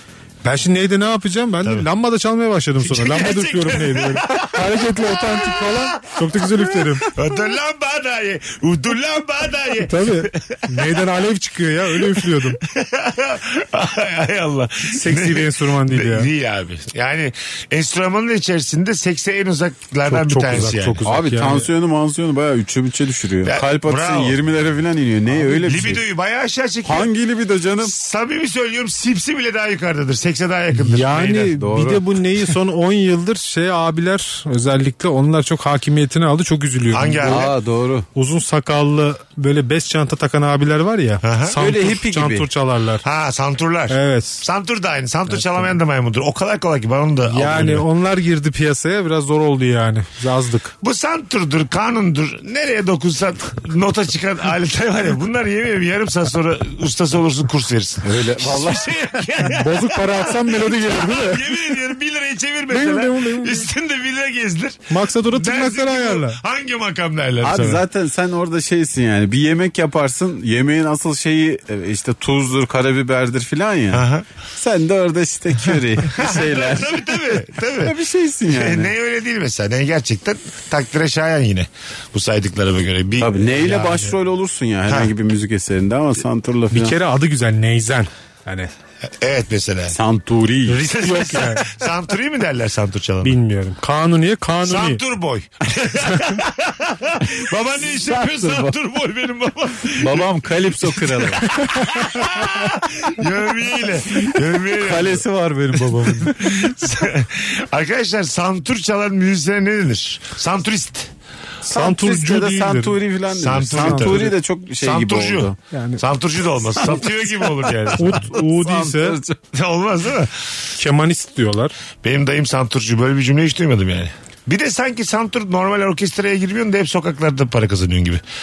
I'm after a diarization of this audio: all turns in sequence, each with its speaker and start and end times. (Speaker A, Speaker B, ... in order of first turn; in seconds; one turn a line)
Speaker A: 0.4-7.2
Speaker B: 2.8-10.9
Speaker A: 9.8-12.6
Speaker B: 12.0-21.0
Speaker A: 14.9-16.3
Speaker A: 20.1-21.7
Speaker C: 21.0-26.0
Speaker B: 23.4-24.4
Speaker B: 25.4-27.1
Speaker C: 26.8-27.9
Speaker B: 27.8-31.5
Speaker A: 30.7-37.5
Speaker C: 31.6-32.0
Speaker B: 36.9-37.5
Speaker C: 37.2-38.1
Speaker A: 38.1-43.0
Speaker B: 41.2-41.6
Speaker C: 41.6-42.5
Speaker B: 43.0-47.9
Speaker A: 43.9-44.4
Speaker A: 47.3-50.7
Speaker B: 50.8-67.8
Speaker C: 58.0-58.9
Speaker A: 59.4-61.8
Speaker A: 62.7-63.7
Speaker A: 64.9-66.4
Speaker C: 67.4-78.9
Speaker B: 73.9-74.3
Speaker B: 76.0-78.0
Speaker B: 78.5-83.8
Speaker C: 83.2-87.0
Speaker A: 83.7-84.1
Speaker B: 84.9-85.1
Speaker A: 86.7-88.7
Speaker B: 89.2-90.0
Speaker C: 89.9-90.8
Speaker A: 90.7-91.8
Speaker B: 90.7-93.3
Speaker A: 93.2-95.0
Speaker B: 94.6-105.2
Speaker C: 97.8-98.7
Speaker C: 99.9-101.6
Speaker A: 101.5-102.3
Speaker C: 104.2-106.7
Speaker B: 106.2-111.1
Speaker C: 111.6-115.6
Speaker A: 111.6-113.0
Speaker B: 113.3-118.3
Speaker A: 113.7-114.3
Speaker A: 115.7-116.0
Speaker C: 116.8-119.4
Speaker A: 118.0-119.2
Speaker B: 119.5-120.4
Speaker A: 120.8-121.7
Speaker B: 122.0-128.2